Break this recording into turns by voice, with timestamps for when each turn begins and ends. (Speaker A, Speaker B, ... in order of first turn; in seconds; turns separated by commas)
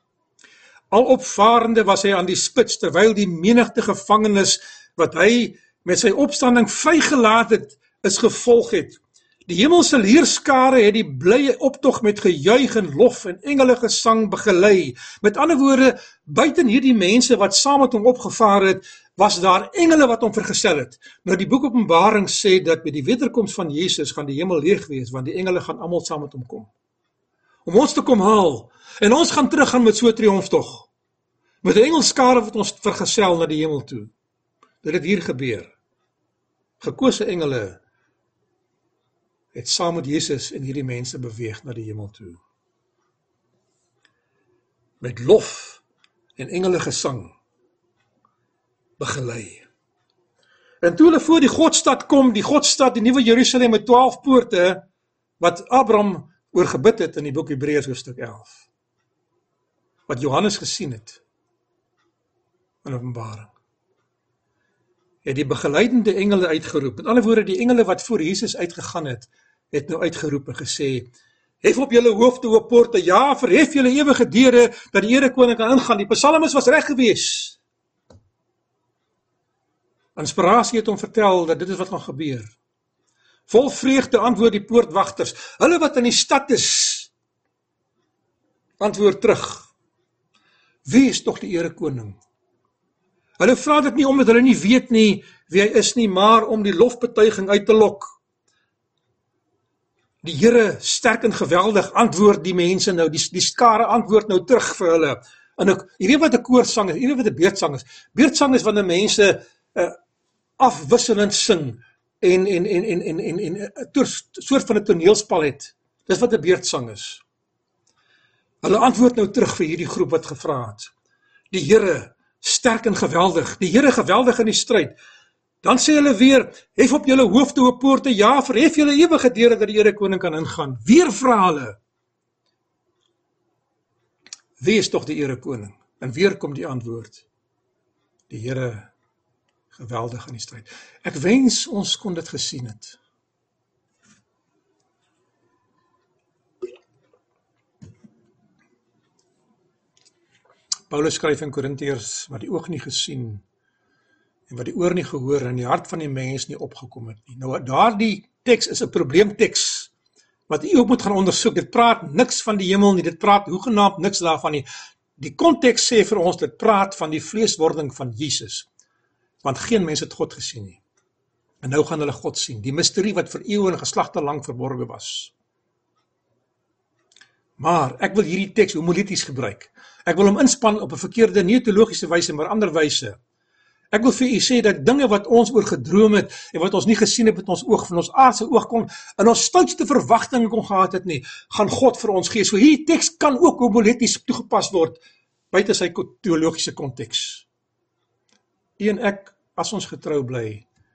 Speaker A: 0.9-26.7, Speaker A: 27.7-30.9, Speaker A: 31.6-34.1, Speaker A: 34.8-35.7, Speaker A: 36.8-37.8, Speaker A: 39.5-42.4, Speaker A: 45.0-45.8, Speaker A: 46.4-47.4, Speaker A: 49.0-49.6, Speaker A: 50.8-54.8, Speaker A: 55.4-58.7, Speaker A: 60.1-61.2, Speaker A: 62.8-63.5, Speaker A: 65.2-71.1, Speaker A: 71.6-77.6, Speaker A: 80.2-82.5, Speaker A: 83.5-87.1, Speaker A: 88.8-89.7, Speaker A: 90.9-92.2, Speaker A: 93.4-98.2, Speaker A: 100.2-110.0, Speaker A: 110.6-117.2, Speaker A: 118.6-120.9, Speaker A: 121.5-125.0, Speaker A: 125.6-131.8, Speaker A: 134.6-137.3, Speaker A: 138.3-138.9, Speaker A: 139.7-143.0, Speaker A: 150.9-153.4, Speaker A: 154.5-159.9, Speaker A: 160.5-164.7, Speaker A: 165.2-168.7, Speaker A: 169.4-170.8, Speaker A: 171.6-175.3, Speaker A: 177.6-183.2, Speaker A: 183.9-197.5, Speaker A: 198.8-200.7